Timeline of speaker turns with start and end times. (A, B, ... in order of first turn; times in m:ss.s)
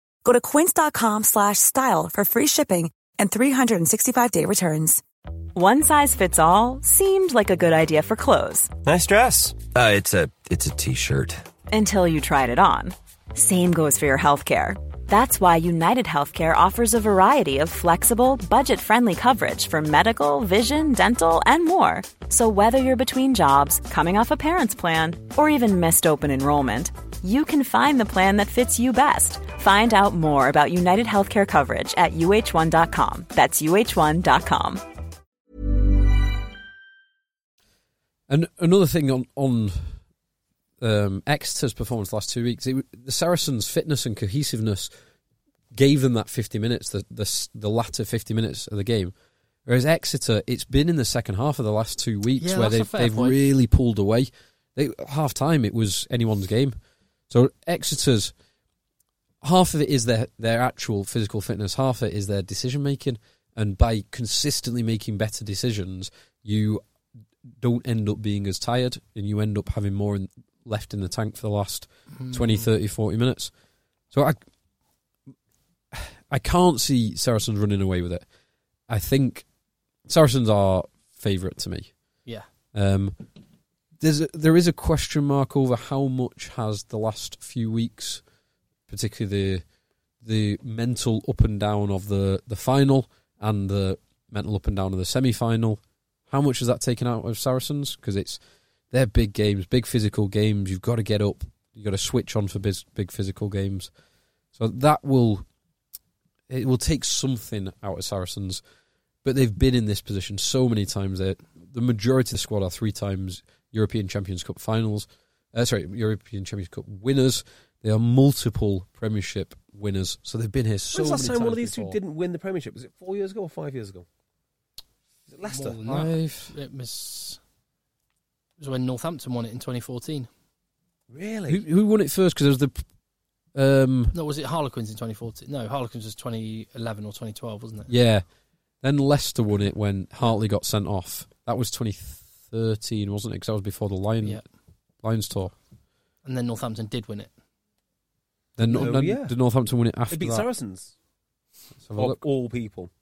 0:00.2-0:05.0 A
0:05.5-0:08.7 B
0:08.8-0:11.4 C
0:11.7-0:34.8 B
0:38.3-0:40.0 D
0:40.8-0:44.9 D
0:45.7-0:49.1 D
0:49.6-0:56.7 D
0:52.4-0:53.4 E
0:57.3-0:58.3 D
0:59.4-1:06.8 D
1:07.6-1:13.5 D
1:12.1-1:12.7 E
1:14.1-1:14.4 D
1:15.9-1:18.2 D
1:18.9-1:19.4 D
1:20.1-1:21.9 D
1:22.7-1:23.2 D
1:24.0-1:28.2 D
1:28.9-1:29.6 D
1:30.2-1:43.9 D
1:44.6-1:45.4 D
1:46.5-1:48.6 D
1:49.2-2:02.0 D
2:00.9-2:04.0 F
2:05.3-2:05.8 F
2:05.4-2:07.4 E
2:05.8-2:06.5 D
2:08.6-2:10.3 E
2:11.1-2:11.6 F
2:11.5-2:12.8 D
2:13.5-2:14.1 D
2:14.1-2:17.9 E
2:17.9-2:18.2 D
2:18.8-2:24.4 D
2:25.0-2:25.5 D
2:26.2-2:27.3 E
2:28.6-2:30.4 D
2:28.7-2:29.3 F
2:30.1-2:30.9 F
2:31.8-2:32.2 D
2:31.9-2:32.9 F